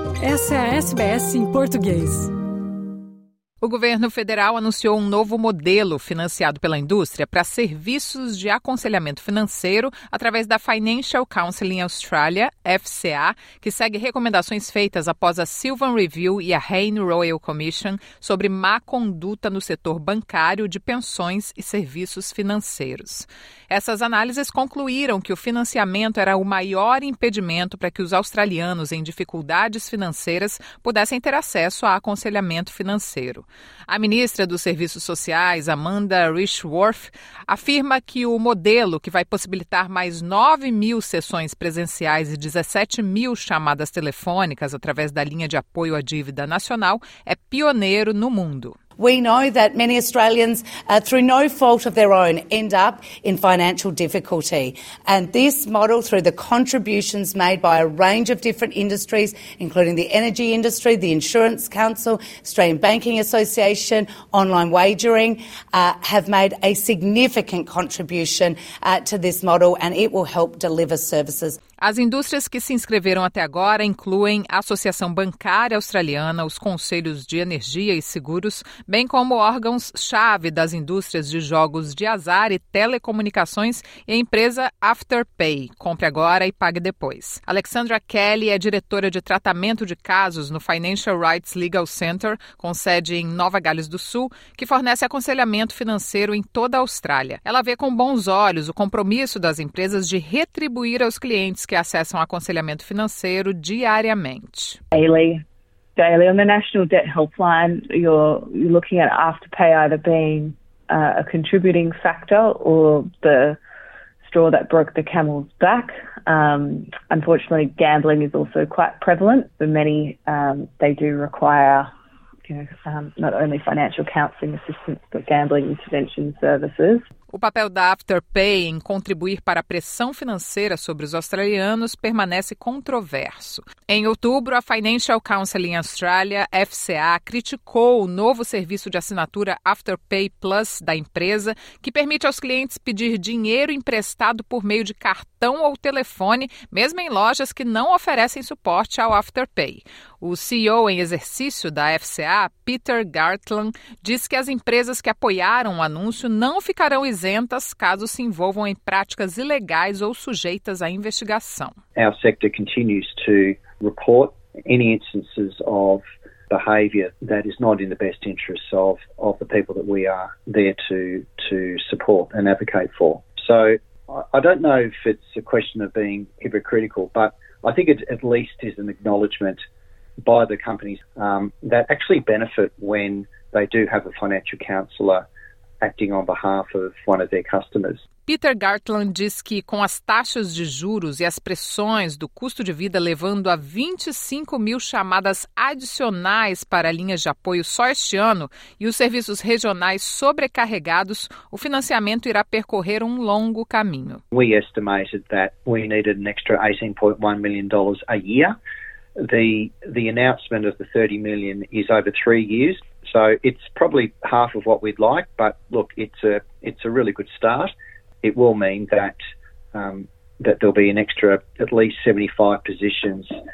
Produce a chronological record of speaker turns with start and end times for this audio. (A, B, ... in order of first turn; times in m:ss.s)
0:00.2-0:02.3 A
0:03.6-0:48.8 B
0:49.0-1:11.6 C
1:11.8-1:44.8 B
1:44.9-1:45.4 D
1:46.0-1:53.6 D
1:54.2-2:01.9 D
2:02.5-2:07.1 D
2:07.3-2:41.8 B
2:42.0-2:59.6 E
3:00.2-3:05.2 E
3:05.8-3:08.0 E
3:08.3-3:24.2 B
3:24.3-3:28.6 E
3:29.2-3:37.7 E
3:38.2-3:39.2 E
3:39.7-3:43.3 E